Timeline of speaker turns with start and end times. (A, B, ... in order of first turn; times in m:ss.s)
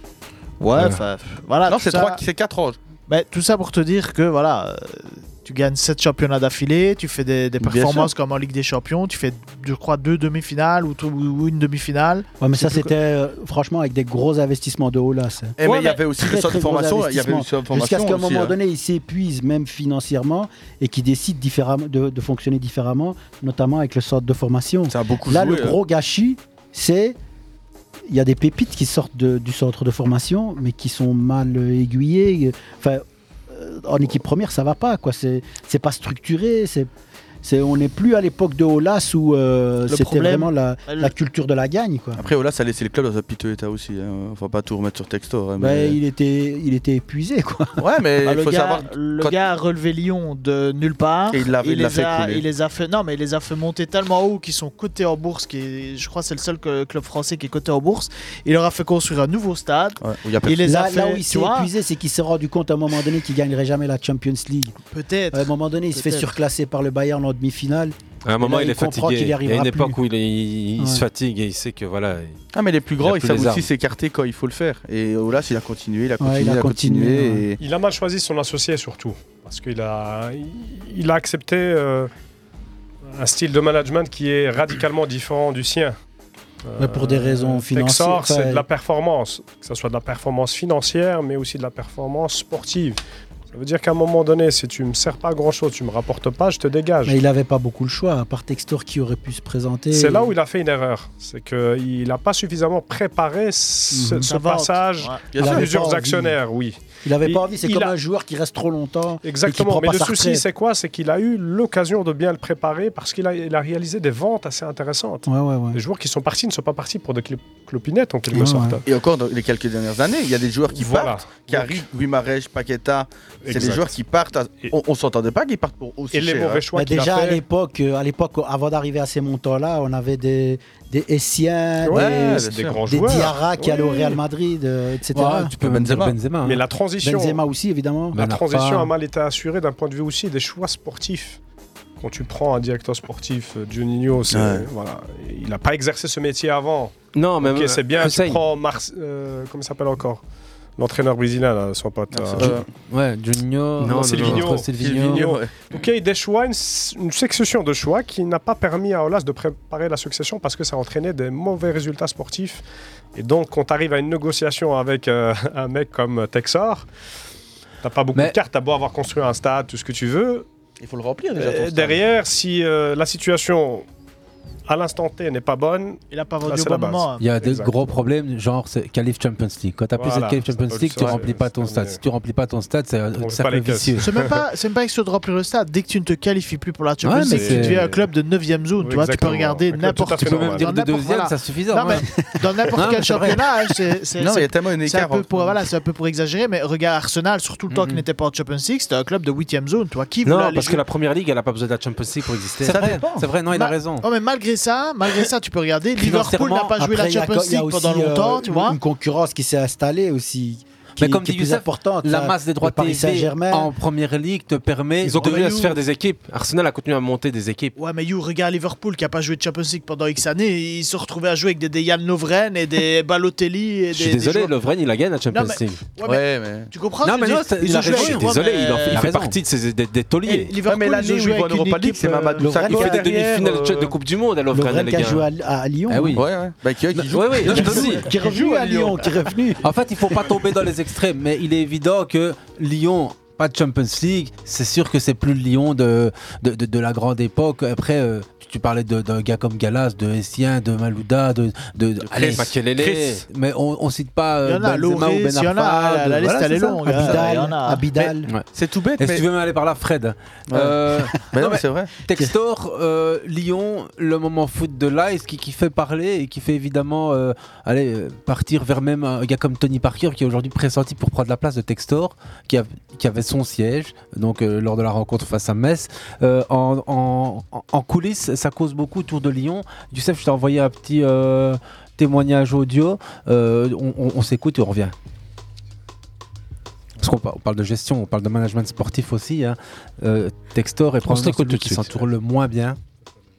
0:00.6-0:02.2 A
0:01.7-0:02.8 B
0:03.1-0:12.9 A
0:07.6-0:08.1 B
0:12.4-0:27.2 C
0:15.6-0:18.6 B
0:15.7-0:15.9 A
0:24.9-0:25.8 B
0:28.1-0:36.9 C
0:37.4-0:42.2 C
0:39.9-0:41.1 A
0:42.2-0:46.0 B
0:45.6-0:47.8 C
0:47.8-0:49.4 B
0:48.2-1:01.7 A
0:51.3-0:52.4 B
1:00.0-1:00.6 B
1:00.6-1:04.8 C
1:04.9-1:06.3 A
1:05.3-1:10.0 C
1:08.2-1:12.4 D
1:10.8-1:11.1 C
1:12.5-1:17.6 B
1:13.0-1:13.7 D
1:16.2-1:17.5 C
1:17.6-1:22.1 E
1:23.0-1:26.0 E
1:26.7-1:33.0 E
1:26.8-1:28.7 C
1:33.5-1:37.2 E
1:37.0-1:40.3 C
1:39.9-1:48.0 E
1:43.9-1:44.3 C
1:44.3-1:45.2 A
1:45.3-1:45.7 B
1:45.4-1:46.4 C
1:47.0-1:50.5 C
1:49.2-1:58.8 E
1:55.3-1:55.8 C
1:58.3-1:58.8 C
1:58.8-2:06.6 B
2:00.7-2:01.9 E
2:03.4-2:04.0 E
2:06.1-2:07.4 E
2:06.7-2:15.6 C
2:11.8-2:14.2 E
2:11.9-2:12.8 B
2:15.1-2:16.6 F
2:15.6-2:16.2 B
2:16.4-2:17.4 E
2:17.0-2:18.2 C
2:18.2-2:18.9 F
2:18.2-2:21.4 E
2:22.0-2:30.2 E
2:24.3-2:24.7 B
2:27.2-2:28.2 D
2:28.0-2:28.4 F
2:30.8-2:32.6 E
2:32.1-2:32.7 B
2:32.4-2:35.3 F
2:33.8-2:42.6 E
2:33.9-2:34.2 D
2:34.2-2:35.5 B
2:43.2-2:46.9 E
2:47.8-2:50.5 E
2:50.8-2:52.0 B
2:51.4-2:53.8 E
2:54.7-2:57.8 E
2:56.1-2:57.2 A
2:57.2-3:04.1 F
3:00.0-3:02.0 E
3:03.2-3:04.3 E
3:04.0-3:20.8 A
3:07.0-3:07.9 F
3:07.3-3:07.8 E
3:08.8-3:10.7 E
3:10.2-3:12.1 F
3:12.8-3:13.4 F
3:12.9-3:13.2 C
3:14.2-3:15.6 B
3:17.7-3:18.0 F
3:20.3-3:23.0 D
3:22.6-3:24.0 F
3:22.6-3:23.3 B
3:23.5-3:28.8 A
3:26.0-3:26.8 F
3:26.7-3:33.7 C
3:31.0-3:35.6 F
3:35.0-3:37.8 D
3:35.2-3:35.8 A
3:37.8-3:44.6 A
3:44.0-3:45.8 D
3:45.3-3:49.1 A
3:46.0-3:46.7 B
3:47.0-3:49.4 F
3:47.8-3:50.5 D
3:50.2-3:52.4 A
3:50.6-3:54.0 B
3:52.4-3:53.5 C
3:52.7-3:55.3 D
3:54.5-3:56.2 C
3:55.9-3:56.2 F
3:56.2-3:59.2 B
3:57.0-3:57.9 F
3:57.2-3:58.0 D
3:57.4-3:59.7 C
3:59.6-4:17.2 F
4:12.0-4:13.2 B
4:12.2-4:13.2 D
4:14.4-4:17.8 A
4:16.8-4:18.3 C
4:18.0-4:19.2 B
4:19.0-4:44.9 F
4:20.5-4:20.8 B
4:21.3-4:21.9 B
4:47.0-4:52.8 F
4:51.0-4:52.0 D